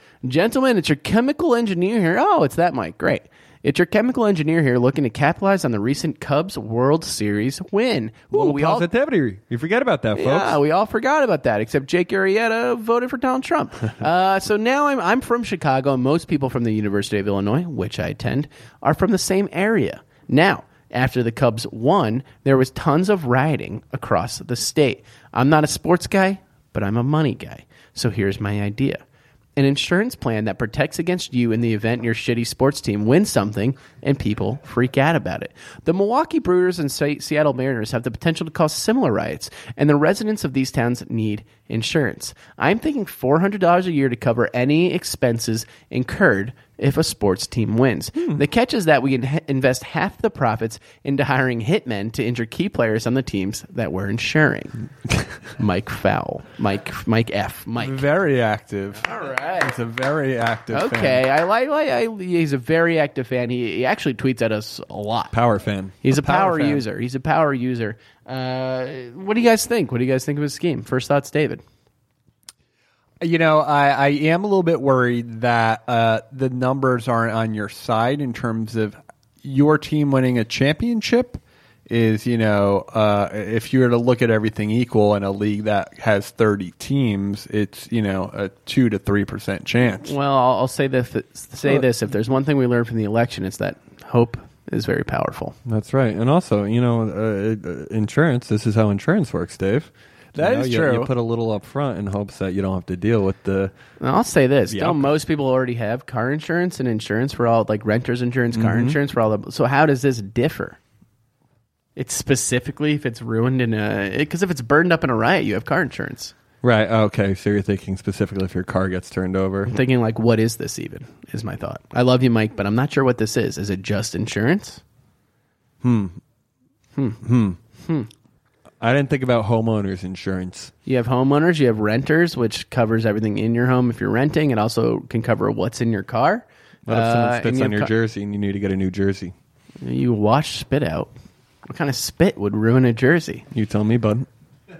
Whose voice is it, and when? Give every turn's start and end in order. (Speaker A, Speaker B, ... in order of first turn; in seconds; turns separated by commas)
Speaker A: 0.2-8.9, Speaker B: 8.3-10.6, Speaker A: 10.1-29.0, Speaker A: 29.6-54.8, Speaker A: 55.6-58.0, Speaker C: 57.8-61.2, Speaker A: 59.0-59.7, Speaker A: 60.7-65.3, Speaker B: 65.3-66.0, Speaker A: 66.0-71.6, Speaker C: 66.2-66.8, Speaker C: 73.2-90.1, Speaker A: 90.0-95.5, Speaker B: 95.6-103.7, Speaker C: 100.3-101.1, Speaker A: 104.0-110.8, Speaker B: 104.7-105.1, Speaker B: 108.5-109.0, Speaker A: 112.0-116.3, Speaker B: 116.6-119.7, Speaker A: 119.7-124.8, Speaker B: 125.8-126.2, Speaker B: 127.2-127.6, Speaker A: 127.8-128.1, Speaker B: 128.8-130.7, Speaker A: 130.8-137.9, Speaker B: 136.9-139.3, Speaker A: 139.8-141.1, Speaker A: 141.7-143.4, Speaker B: 143.5-144.3